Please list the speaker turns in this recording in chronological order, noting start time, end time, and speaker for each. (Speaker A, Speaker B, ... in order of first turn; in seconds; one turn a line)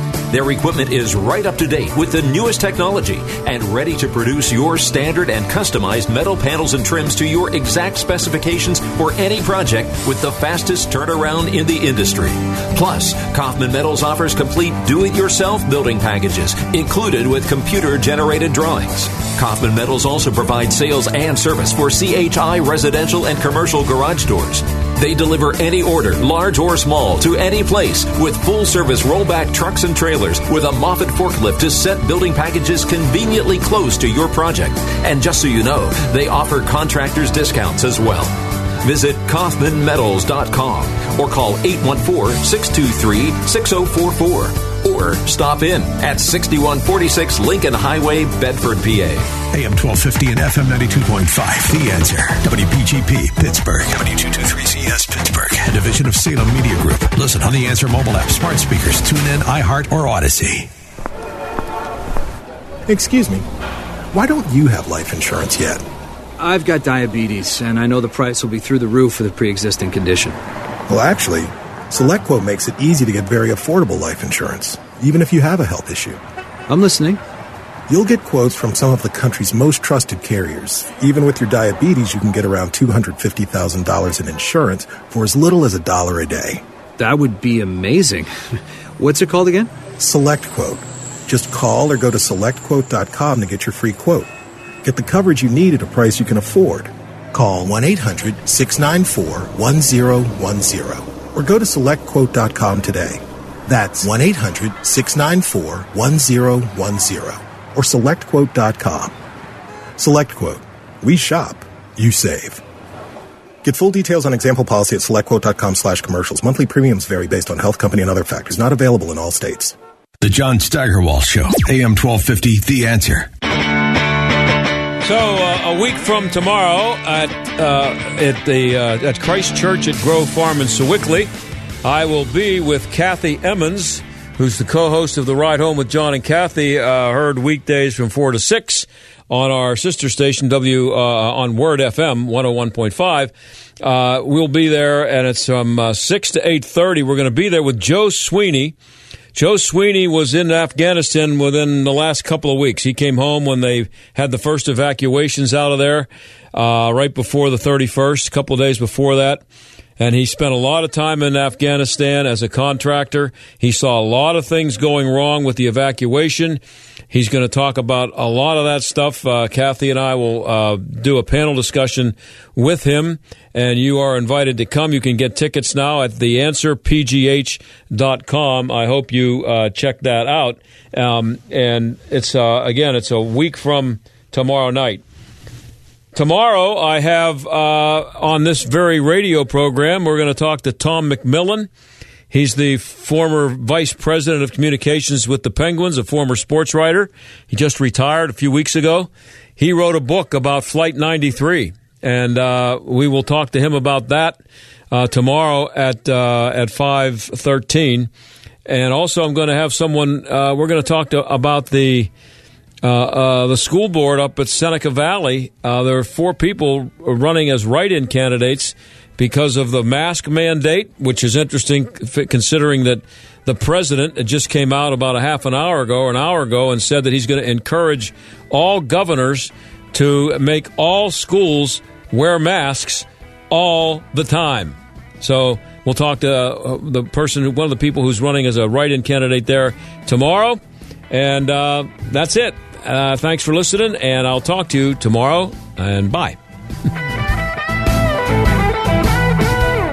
Speaker A: 0.3-49.3
Speaker B: 49.5-60.7
Speaker C: 62.9-63.5
Speaker C: 64.1-65.8
Speaker D: 66.4-70.4
Speaker C: 70.9-76.2
Speaker D: 76.7-77.2
Speaker C: 77.9-86.6
Speaker D: 87.0-88.3
Speaker D: 89.0-89.7
Speaker C: 90.0-94.3
Speaker C: 94.8-109.1
Speaker C: 110.0-112.6
Speaker C: 113.6-119.8
Speaker B: 120.2-123.3
Speaker E: 125.0-131.3
Speaker E: 131.8-148.7
Speaker E: 149.3-159.4
Speaker E: 160.0-166.6
Speaker E: 167.1-185.0
Speaker E: 186.1-191.7
Speaker E: 192.3-204.4
Speaker E: 204.9-208.1
Speaker E: 208.7-212.1
Speaker E: 212.8-240.6
Speaker E: 241.1-246.3